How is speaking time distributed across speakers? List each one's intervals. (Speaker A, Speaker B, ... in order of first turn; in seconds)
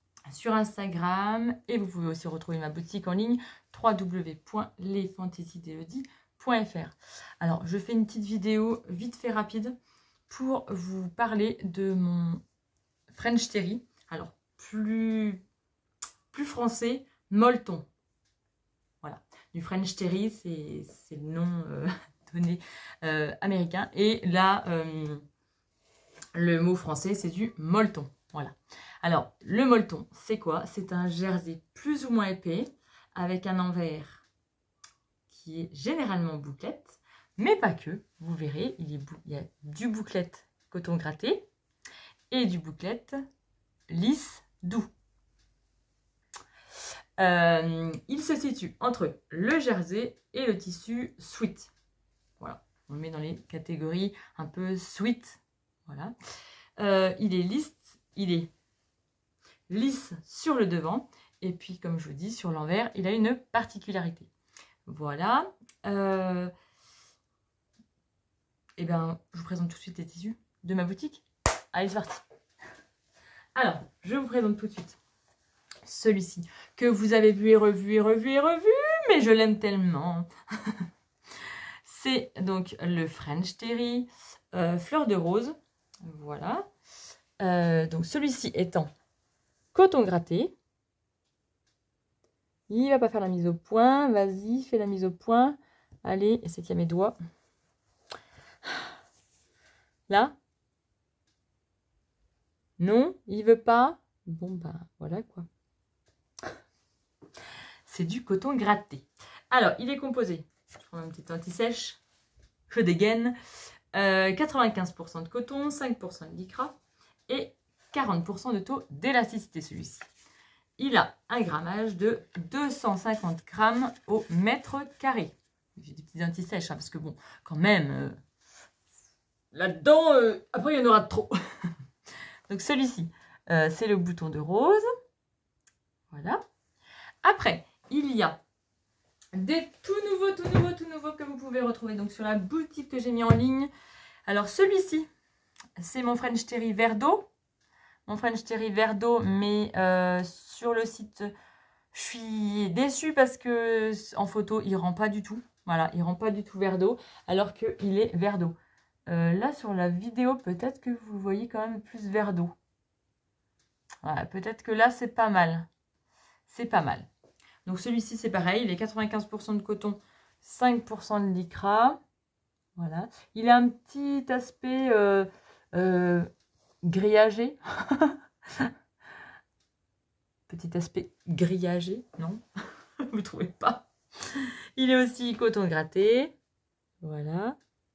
Speaker A: 0.3-9.8, 10.3-12.4, 13.1-15.4, 16.3-17.9, 19.0-25.2, 26.3-34.2, 35.3-41.5, 42.3-43.2, 43.9-44.9, 47.2-51.7, 52.4-56.1, 56.8-58.5, 59.7-64.3, 64.8-66.5, 68.8-72.2, 73.5-75.0, 75.8-80.8, 81.8-86.7, 87.4-88.9, 89.7-90.5, 92.7-97.2, 100.1-100.3, 102.8-105.5, 107.8-112.0, 112.7-113.3, 113.9-116.8, 117.3-120.0, 120.8-128.2, 129.5-131.3, 132.5-134.8, 136.1-136.4, 137.2-138.4, 139.3-143.7, 144.2-145.1, 145.8-147.3, 148.1-151.3, 151.9-158.6, 159.1-162.5, 164.0-165.7, 166.5-167.1, 167.7-172.0, 172.8-176.3, 176.8-178.7, 180.5-182.4, 183.0-186.3, 187.0-187.6